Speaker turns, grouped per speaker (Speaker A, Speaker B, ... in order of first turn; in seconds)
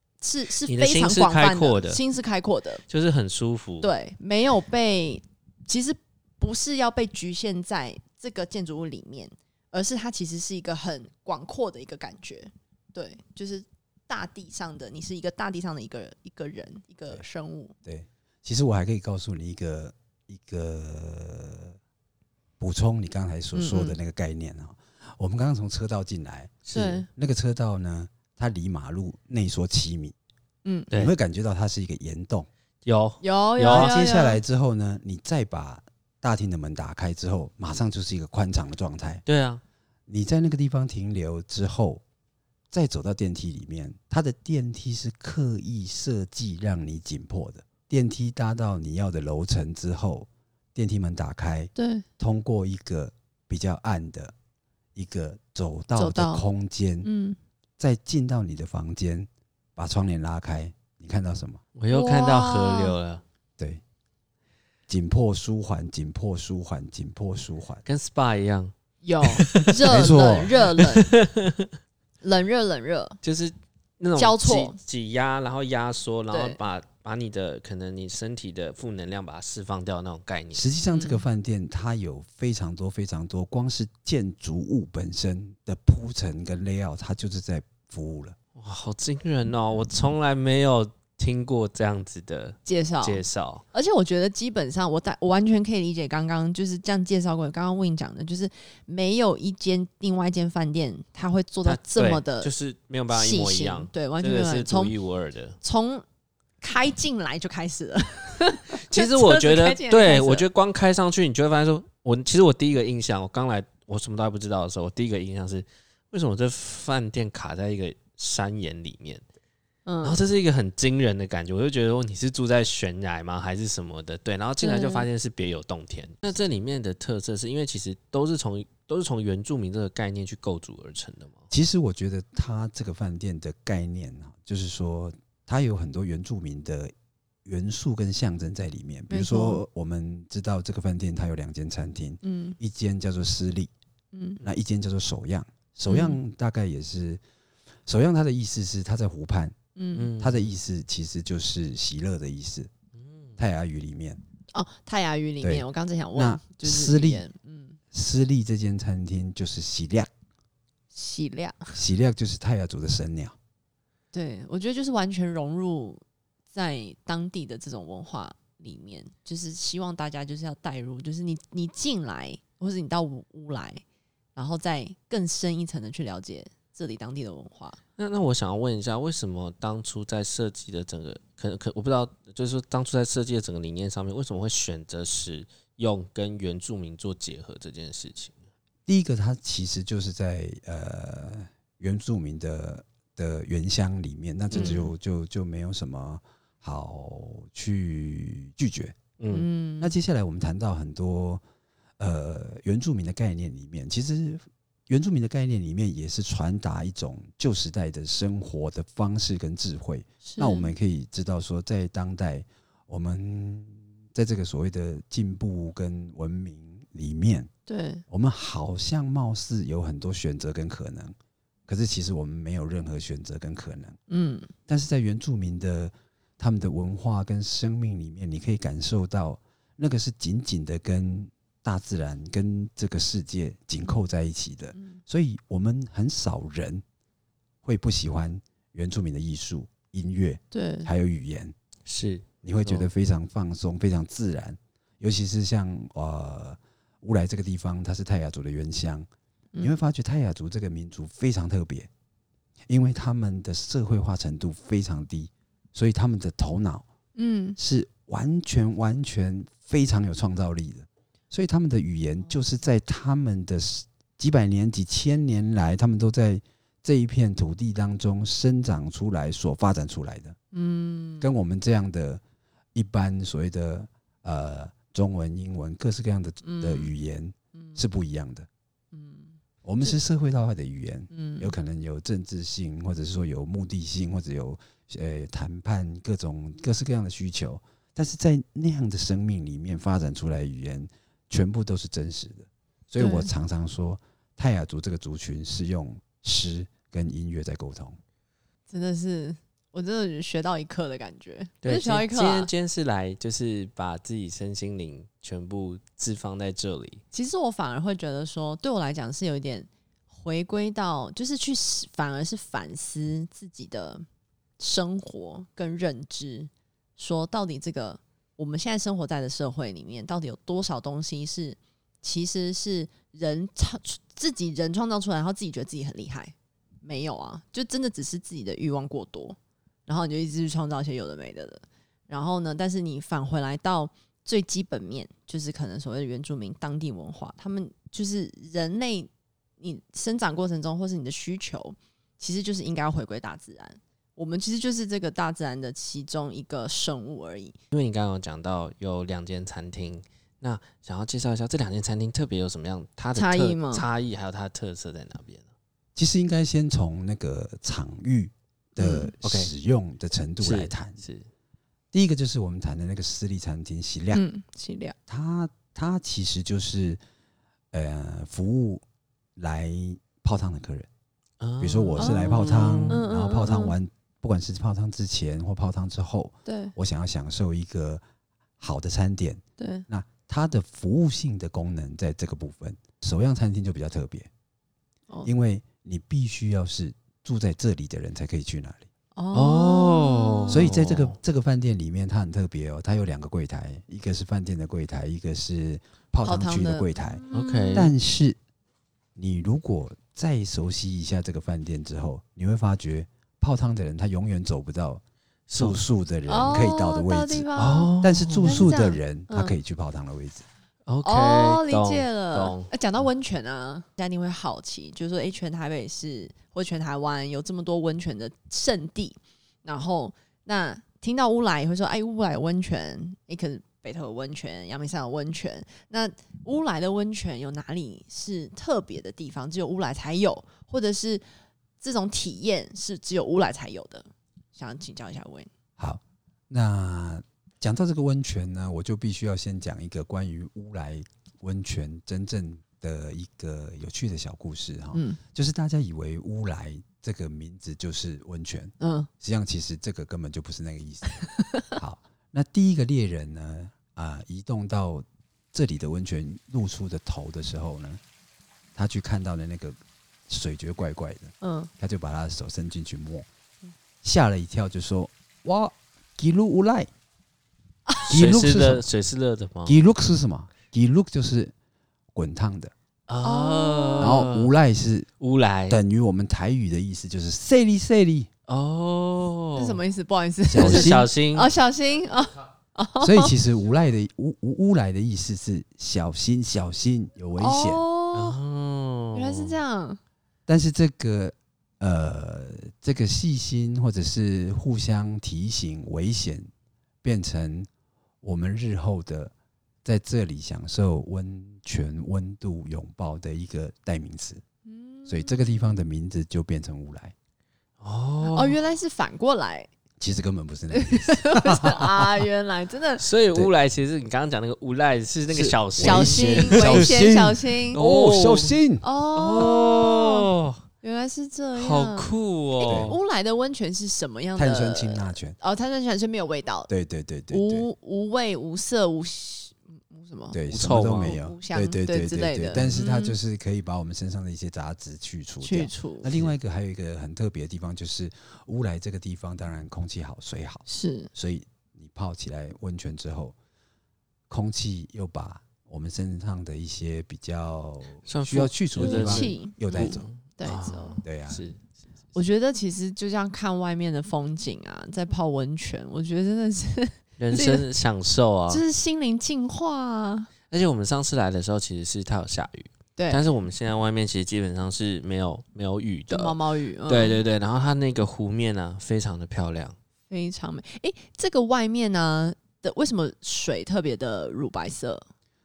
Speaker A: 0.2-2.8, 3.8-17.7, 23.5-24.0, 26.7-27.1, 30.6-30.9, 33.2-34.4, 51.8-52.0, 56.0-56.4, 57.0-57.4, 61.9-62.9, 69.0-71.1, 72.2-73.2, 74.2-74.8, 76.3-76.6, 80.9-81.2, 92.7-102.5, 103.1-104.9, 105.6-106.0, 106.6-110.5, 119.8-120.2, 124.6-125.1, 139.1-139.6, 142.2-142.6, 144.1-144.4, 145.9-146.2, 149.8-150.1, 154.5-157.8, 160.9-161.8, 164.1-166.0, 166.5-173.8, 174.3-177.8, 194.5-194.9, 199.3-199.9, 210.2-210.7, 217.7-218.0, 224.1-224.5, 240.5-240.9, 257.1-257.6, 270.5-271.3, 276.4-276.9, 277.5-277.8, 278.9-279.4, 281.1-281.5, 293.0-293.3, 298.7-302.5, 307.1-314.0, 314.6-339.1, 339.6-347.6, 353.1-353.8, 358.8-359.1, 364.1-364.9, 372.0-373.8, 376.4-376.7, 379.6-379.9, 389.1-390.7, 396.2-397.9, 406.3-409.6, 411.0-431.2, 431.8-435.5, 444.9-445.2, 448.8-449.1, 451.1-451.7, 461.4-461.7, 473.2-474.2, 479.6-483.4, 487.4-488.4, 489.1-490.0, 504.6-505.6, 508.3-509.7, 510.7-513.0, 515.8-517.8, 518.8-520.3, 520.8-526.7, 527.3-530.4, 530.9-533.2, 535.4-536.1, 540.7-541.1, 548.8-551.0, 552.1-557.6, 558.5-560.3, 563.0-563.2, 566.1-567.2, 570.1-575.0
Speaker B: 0.6-2.0, 2.9-3.9, 26.7-27.0, 32.8-33.9, 39.2-39.6, 61.7-63.2, 67.8-68.7, 69.3-69.8, 70.5-71.7, 73.2-80.7, 88.5-93.6, 101.6-105.6, 108.7-119.2, 120.0-131.4, 149.9-150.5, 152.9-153.4, 178.0-188.4, 194.5-194.9, 199.2-199.5, 241.8-242.9, 301.6-307.0, 347.7-355.5, 359.2-359.5, 360.4-361.3, 371.4-373.0, 389.3-391.2, 397.3-397.9, 405.5-405.8, 407.6-408.6, 410.9-412.7, 468.1-469.8, 473.1-474.5, 475.2-475.8, 478.5-479.8, 480.6-481.5, 488.1-489.6, 507.8-508.6, 513.0-516.9, 517.7-518.6, 519.1-520.6, 521.5-523.0, 530.5-531.2, 532.5-532.8, 548.0-551.8, 557.2-558.6, 560.5-569.8
Speaker C: 17.8-21.8, 22.6-30.1, 30.9-32.5, 33.7-39.2, 40.1-42.0, 42.7-54.3, 54.9-57.1, 57.8-61.6, 64.9-67.8, 69.8-70.6, 80.5-88.3, 131.5-136.9, 137.4-143.7, 144.4-147.2, 147.8-149.6, 150.2-152.7, 153.4-154.2, 155.4-157.2, 157.9-160.1, 161.7-163.3, 188.9-199.0, 199.8-201.4, 202.0-217.5, 218.1-221.2, 221.7-224.0, 224.7-236.8, 237.6-241.5, 242.4-249.1, 249.6-251.9, 252.7-256.9, 257.6-270.4, 271.2-272.2, 272.7-278.5, 279.6-298.0, 355.9-361.0, 361.9-364.2, 365.1-367.0, 367.7-368.8, 369.4-370.9, 371.6-378.0, 378.6-384.3, 385.2-388.9, 390.5-397.2, 397.7-398.4, 399.1-405.0, 405.5-410.4, 435.8-451.2, 451.7-458.0, 458.7-463.2, 464.0-466.9, 468.1-468.8, 469.6-471.5, 472.1-472.7, 474.0-475.1, 475.7-478.3, 480.5-481.1, 483.0-487.8, 490.5-496.5, 497.0-497.7, 498.2-499.3, 499.8-504.4, 505.1-507.1, 510.0-512.3, 515.3-518.9, 522.6-523.0, 524.4-525.4, 526.7-527.7, 530.3-543.3, 544.3-550.0, 551.0-551.4